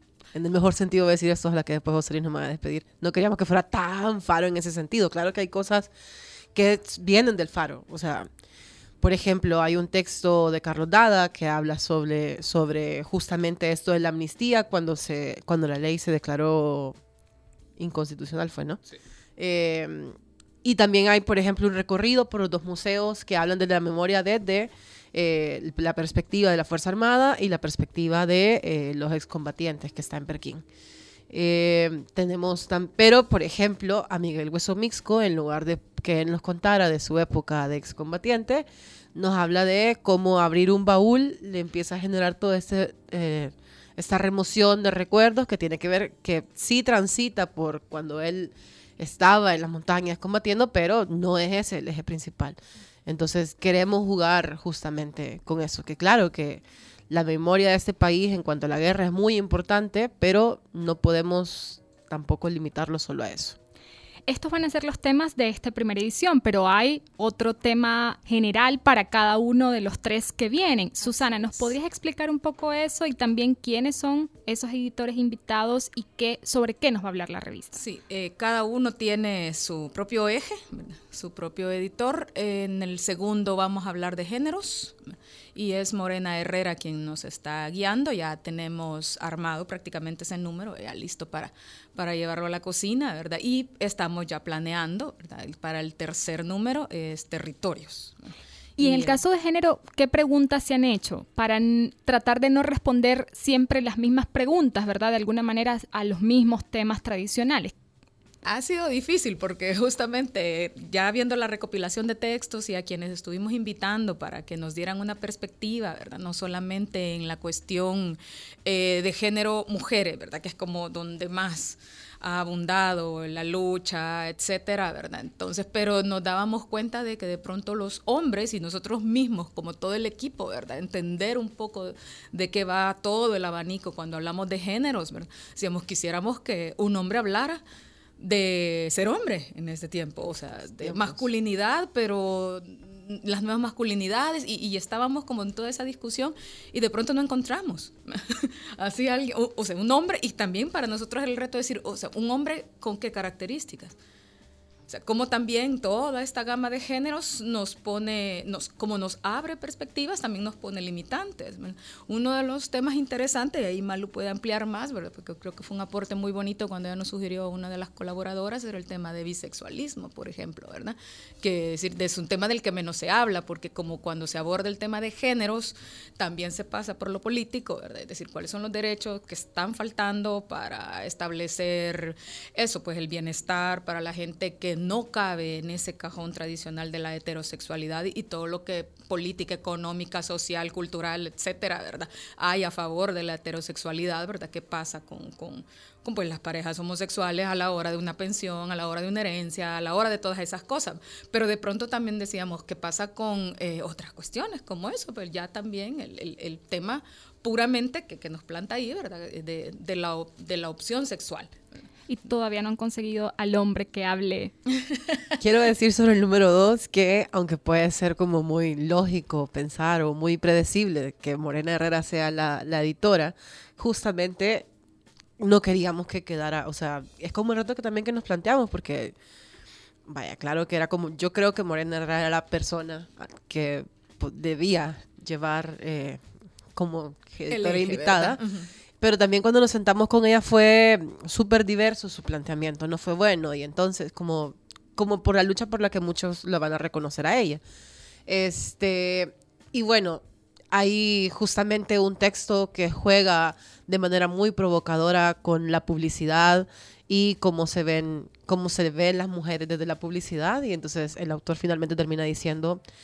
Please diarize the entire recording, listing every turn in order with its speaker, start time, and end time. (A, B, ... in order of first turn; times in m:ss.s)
0:00.3-0:05.9 A
0:06.5-0:08.3 A
0:09.0-0:17.0 A
0:17.8-0:18.8 A
0:19.4-0:30.6 A
0:31.3-1:03.6 A
1:04.3-1:17.8 B
1:11.0-1:11.8 C
1:17.8-1:25.0 C
1:25.5-1:39.2 C
1:38.8-1:47.7 B
1:48.4-2:17.6 C
2:18.2-2:33.9 C
2:20.8-2:21.2 A
2:34.9-3:31.5 C
3:32.1-3:34.5 B
3:34.9-3:35.2 C
3:35.4-3:44.7 A
3:45.4-3:49.1 A
3:50.1-3:56.2 A
3:56.7-3:58.4 A
3:57.5-3:58.7 C
3:59.0-4:07.6 A
4:08.3-4:22.8 A